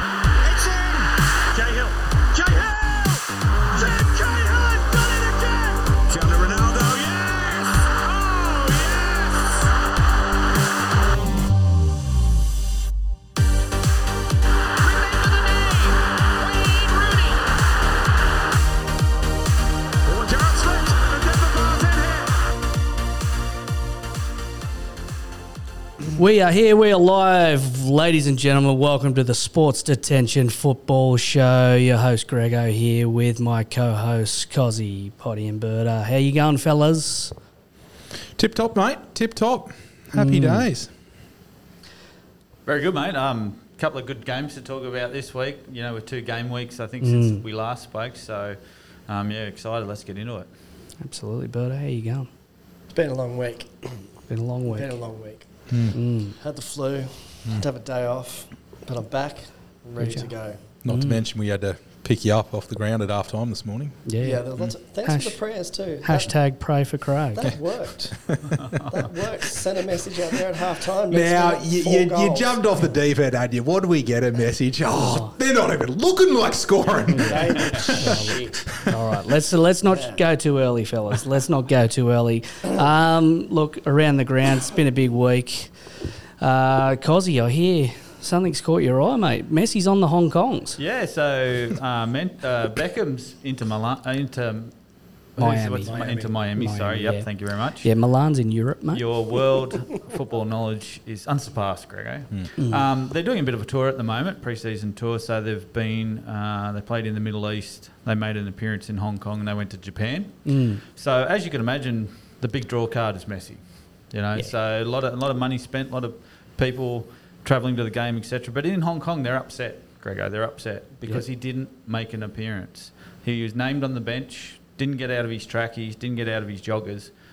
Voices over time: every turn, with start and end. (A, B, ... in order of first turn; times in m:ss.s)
0:00.4-0:09.5 A
0:14.8-0:17.4 A
0:20.0-0:22.3 A
0:26.1-0:37.3 B
0:38.4-0:40.9 C
0:40.1-0:40.7 B
0:42.6-0:50.5 D
0:47.0-0:47.4 B
0:51.0-0:52.3 B
0:52.9-0:54.0 E
0:54.3-0:55.0 B
0:54.7-0:55.5 E
0:55.7-0:56.0 C
0:55.9-0:56.3 B
0:56.3-1:00.6 E
1:00.0-1:00.3 B
1:00.8-1:04.0 C
1:00.9-1:01.2 B
1:04.0-1:04.4 B
1:04.2-1:06.3 E
1:05.0-1:05.4 B
1:06.0-1:07.5 B
1:07.3-1:12.6 E
1:08.3-1:08.8 C
1:11.1-1:18.2 C
1:15.0-1:15.3 B
1:17.1-1:17.4 B
1:17.2-1:18.8 E
1:18.0-1:25.7 B
1:19.9-1:20.2 E
1:26.4-1:30.8 B
1:30.8-1:34.7 D
1:35.4-1:37.9 D
1:35.4-1:37.2 B
1:35.8-1:36.3 E
1:37.8-1:39.0 B
1:38.9-2:07.1 D
1:42.6-1:42.8 B
1:50.4-1:50.8 B